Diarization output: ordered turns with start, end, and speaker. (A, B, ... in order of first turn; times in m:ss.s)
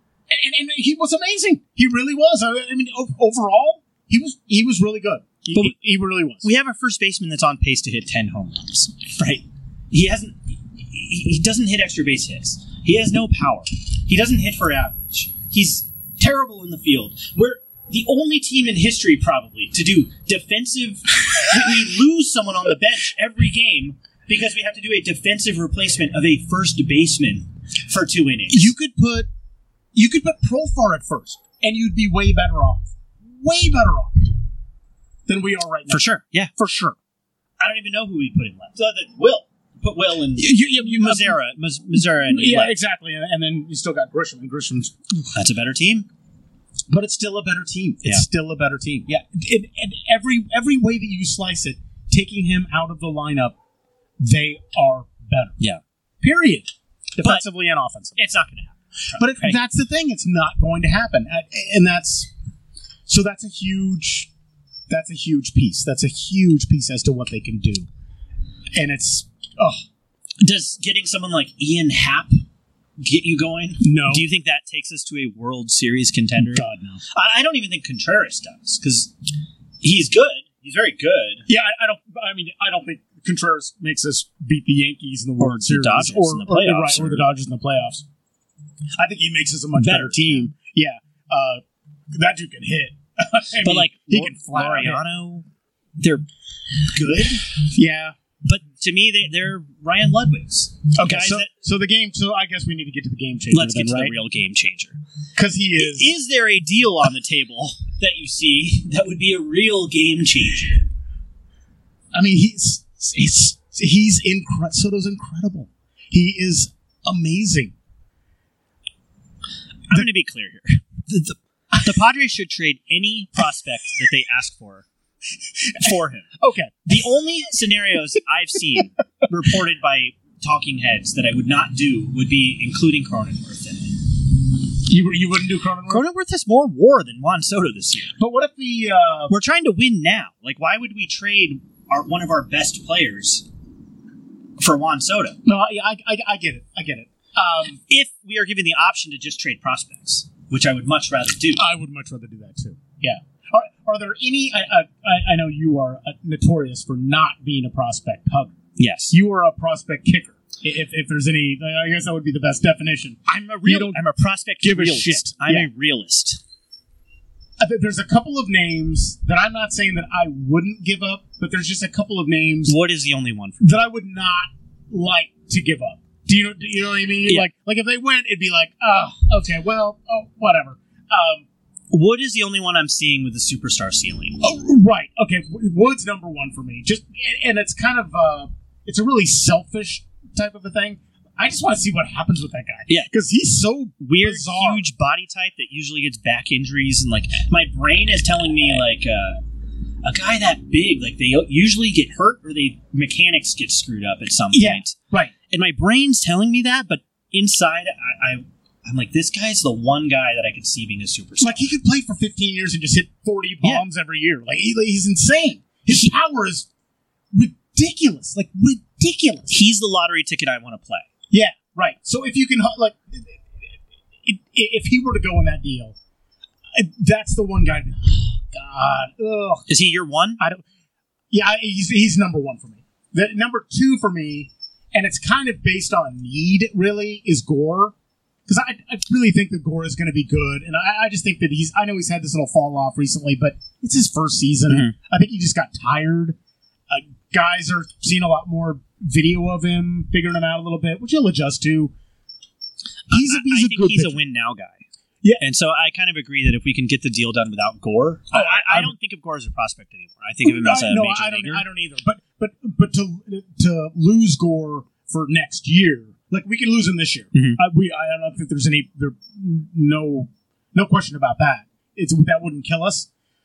0:00.3-0:06.5 A
0:06.4-0:28.7 B
0:28.5-0:29.3 A
0:29.9-0:34.3 A
0:35.3-0:36.0 A
0:35.9-0:36.5 B
0:36.6-0:37.0 A
0:37.6-0:42.7 B
0:40.4-0:41.4 A
0:42.2-0:45.2 A
0:45.3-0:46.1 B
0:46.9-0:53.6 A
0:54.2-0:55.6 A
0:56.2-0:58.2 A
0:58.2-0:59.6 B
0:59.2-1:02.3 A
1:03.1-1:04.3 A
1:04.9-1:07.9 A
1:08.8-1:09.8 A
1:10.4-1:12.4 B
1:13.0-1:19.1 B
1:13.8-1:14.2 A
1:16.4-1:17.0 A
1:19.8-1:21.5 B
1:21.5-1:28.0 A
1:25.4-1:27.3 B
1:29.0-1:35.0 A
1:29.8-1:30.5 B
1:33.6-1:35.5 B
1:36.0-1:36.3 B
1:36.8-1:37.5 B
1:37.7-1:38.2 A
1:38.4-1:41.5 B
1:41.0-1:44.2 A
1:43.5-1:45.0 B
1:45.4-1:46.1 A
1:45.8-1:50.8 B
1:52.1-1:57.7 A
1:59.9-2:04.9 B
2:05.6-2:07.1 A
2:05.8-2:06.3 B
2:06.9-2:14.0 B
2:14.8-2:16.0 A
2:15.9-2:18.2 B
2:18.2-2:19.3 A
2:19.3-2:23.5 B
2:24.6-2:25.4 B
2:25.4-2:27.8 A
2:27.9-2:31.6 B
2:31.6-2:38.6 A
2:38.8-2:39.2 B
2:39.1-2:44.0 A
2:43.3-2:46.4 B
2:44.6-2:45.7 A
2:47.6-2:52.8 A
2:52.7-2:53.8 B
2:53.6-3:01.4 A
3:01.9-3:04.4 B
3:04.4-3:14.9 A
3:14.0-3:19.4 B
3:20.0-3:25.0 B
3:24.5-3:25.3 A
3:25.5-3:31.7 B
3:31.4-3:36.7 A
3:37.3-3:39.5 A
3:39.5-3:41.1 B
3:41.3-3:43.4 A
3:44.2-3:46.0 A
3:46.7-3:49.7 A
3:49.7-3:50.4 B
3:51.3-3:57.9 A
3:58.5-4:06.4 A
4:04.7-4:05.0 B
4:06.9-4:11.9 A
4:13.1-4:14.2 A
4:13.1-4:14.9 B
4:15.4-4:21.6 B
4:18.3-4:18.9 A
4:20.4-4:33.1 A
4:27.3-4:27.6 B